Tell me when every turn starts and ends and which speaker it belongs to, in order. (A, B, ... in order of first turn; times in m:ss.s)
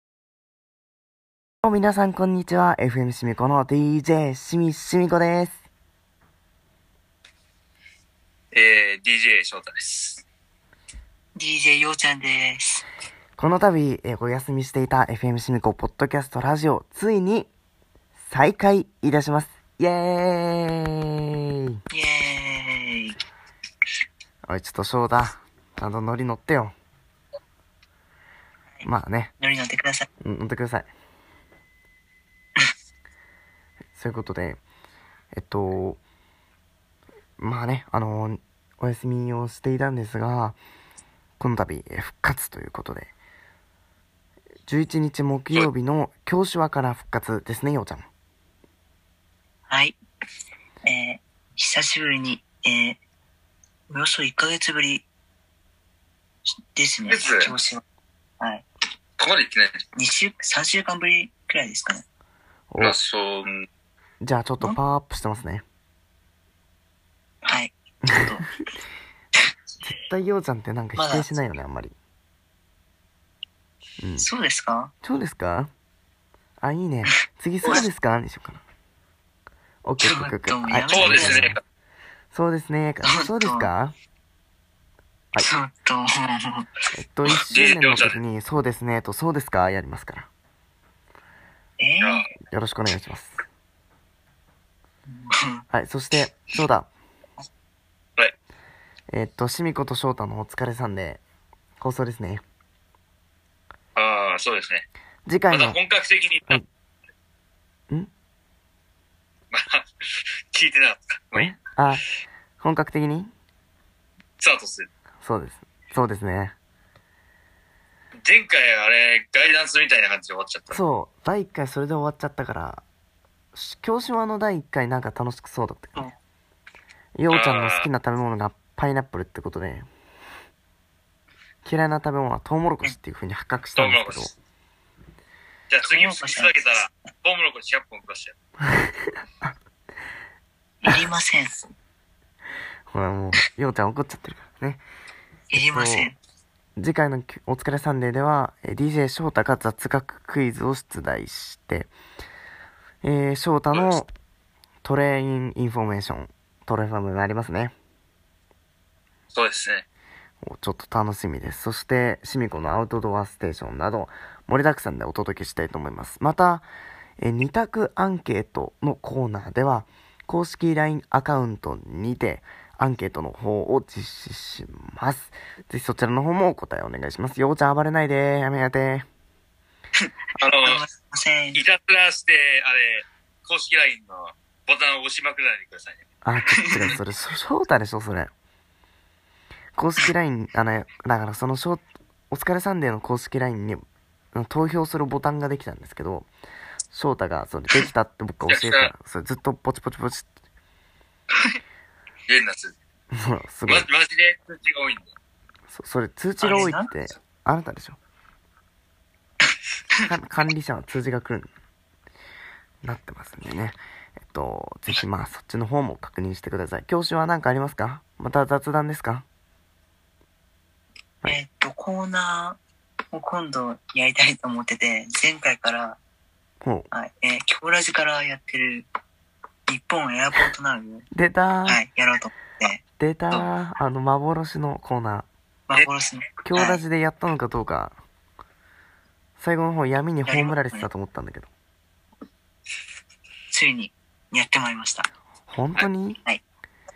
0:01.6-0:05.6 A
0:08.5-0:10.2 B
0:11.4-0:12.8 C
0:13.4-0:17.5 A
0:18.3-0:21.8 A
0:21.9-0:23.2 C
0:24.5-0:26.8 A
0:28.8-0:29.3 A
0:29.4-0:30.1 C
0:30.2-0:30.9 A
0:34.0-0:34.6 A
0:35.3-0:36.0 A
0:37.4-0:40.6 A
0:41.4-0:43.1 A
0:44.7-0:48.1 A
0:49.7-0:50.0 C
0:50.8-0:53.0 C
0:53.9-0:55.1 C
0:56.7-0:57.8 C
0:57.1-0:57.5 B
0:58.4-0:58.6 C
0:59.2-0:59.8 B
1:00.0-1:02.0 C
1:02.7-1:03.0 A
1:02.8-1:03.7 B
1:04.2-1:05.6 A
1:07.4-1:08.5 C
1:09.8-1:12.0 A
1:11.0-1:11.3 C
1:14.0-1:14.3 A
1:14.2-1:14.9 C
1:15.0-1:15.7 A
1:16.6-1:18.6 A
1:19.8-1:21.6 A
1:20.0-1:21.5 C
1:20.9-1:21.6 B
1:22.3-1:24.0 A
1:23.0-1:23.7 C
1:25.4-1:26.7 C
1:26.9-1:30.3 A
1:27.5-1:28.2 B
1:31.8-1:32.2 C
1:32.5-1:33.4 A
1:35.1-1:35.6 C
1:35.7-1:36.9 A
1:39.1-1:41.2 A
1:41.8-1:42.4 A
1:44.0-1:44.9 B
1:45.3-1:45.8 A
1:45.5-1:46.6 B
1:49.5-1:49.8 B
1:50.5-1:51.6 B
1:51.3-1:52.0 A
1:52.6-1:53.3 A
1:54.4-1:54.9 B
1:55.2-1:56.6 A
1:58.2-2:00.8 B
2:00.7-2:02.8 A
2:03.5-2:06.1 A
2:07.2-2:09.9 A
2:07.3-2:07.9 B
2:11.6-2:14.3 A
2:13.8-2:14.3 B
2:15.7-2:18.4 B
2:15.9-2:16.5 C
2:18.6-2:19.5 A
2:20.8-2:21.6 C
2:22.9-2:24.8 A
2:25.5-2:26.2 C
2:25.5-2:26.1 A
2:26.8-2:31.9 A
2:33.0-2:34.1 A
2:33.7-2:34.0 B
2:34.8-2:37.7 A
2:39.3-2:39.8 B
2:40.4-2:46.7 A
2:47.2-2:59.1 A
3:00.4-3:00.8 B
3:00.6-3:01.6 C
3:01.6-3:06.0 B
3:06.2-3:08.3 A
3:06.6-3:06.9 C
3:09.8-3:13.8 A
3:14.3-3:16.3 A
3:16.9-3:20.3 A
3:18.5-3:18.9 B
3:22.3-3:22.8 B
3:23.1-3:23.9 A
3:23.7-3:25.1 B
3:25.7-3:28.0 A
3:26.4-3:26.9 C
3:30.1-3:31.5 A
3:32.8-3:39.2 A
3:41.2-3:42.6 C
3:43.1-3:46.0 C
3:46.6-3:46.9 A
3:46.9-3:48.9 C
3:49.7-3:51.1 C
3:51.1-3:51.8 A
3:51.6-3:53.5 C
3:53.0-3:55.3 A
3:55.7-3:56.8 C
3:56.4-3:58.0 A
3:59.4-4:01.5 A
4:00.3-4:00.9 C
4:03.5-4:05.1 C
4:05.5-4:06.2 A